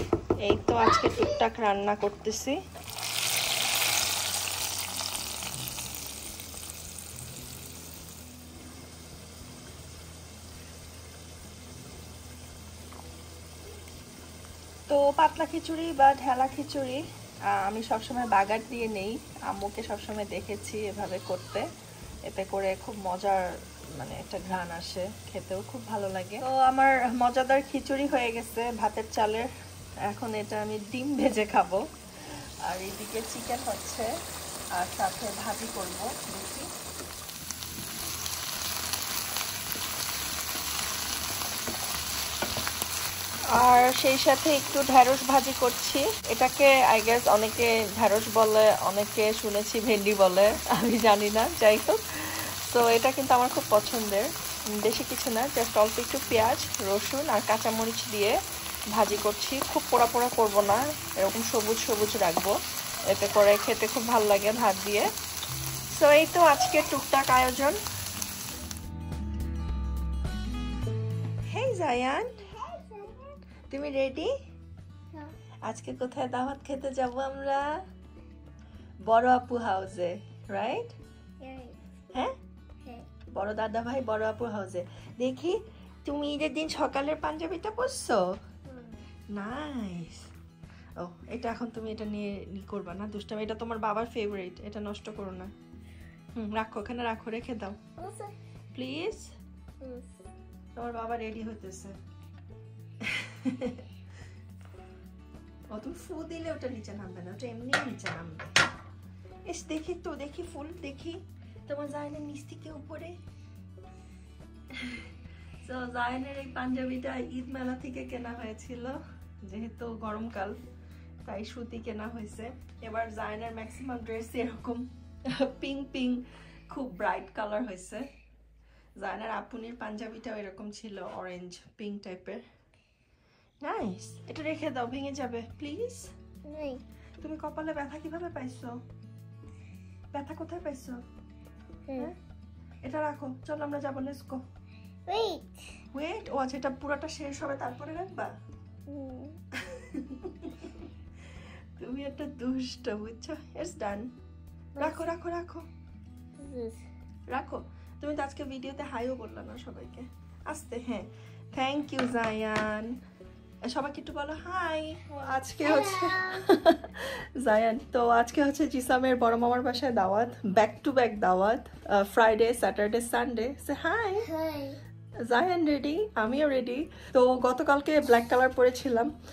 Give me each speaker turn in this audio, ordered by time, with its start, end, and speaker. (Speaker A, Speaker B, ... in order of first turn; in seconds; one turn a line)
Speaker A: 0.4-2.6
Speaker A: 14.9-17.0
Speaker A: 17.6-21.6
Speaker A: 22.3-29.5
Speaker A: 30.1-31.8
Speaker A: 32.6-34.1
Speaker A: 34.7-36.6
Speaker A: 43.5-58.4
Speaker A: 58.9-62.5
Speaker A: 63.1-65.1
Speaker A: 65.9-67.8
Speaker A: 71.5-72.4
Speaker B: 72.5-73.4
Speaker A: 73.7-74.3
Speaker A: 75.6-77.7
Speaker A: 79.0-80.9
Speaker B: 81.4-81.8
Speaker A: 83.3-88.2
Speaker B: 88.7-89.0
Speaker A: 89.3-90.3
Speaker A: 91.0-95.5
Speaker A: 96.3-97.8
Speaker B: 98.0-98.3
Speaker A: 98.7-99.3
Speaker B: 99.8-100.1
Speaker A: 100.7-101.9
Speaker A: 103.0-103.8
Speaker A: 105.7-108.5
Speaker A: 109.5-113.2
Speaker A: 114.7-115.1
Speaker A: 115.6-120.6
Speaker A: 121.2-128.0
Speaker A: 129.0-132.4
Speaker A: 133.6-136.1
Speaker B: 136.5-136.8
Speaker A: 137.2-138.7
Speaker A: 140.1-141.0
Speaker A: 142.8-144.4
Speaker B: 145.1-145.7
Speaker A: 145.9-148.3
Speaker B: 148.9-149.3
Speaker A: 149.6-150.7
Speaker A: 151.8-154.1
Speaker A: 154.8-155.7
Speaker B: 156.4-156.8
Speaker A: 157.3-163.0
Speaker A: 163.6-174.3
Speaker B: 165.3-166.4
Speaker B: 174.2-174.8
Speaker A: 175.3-179.1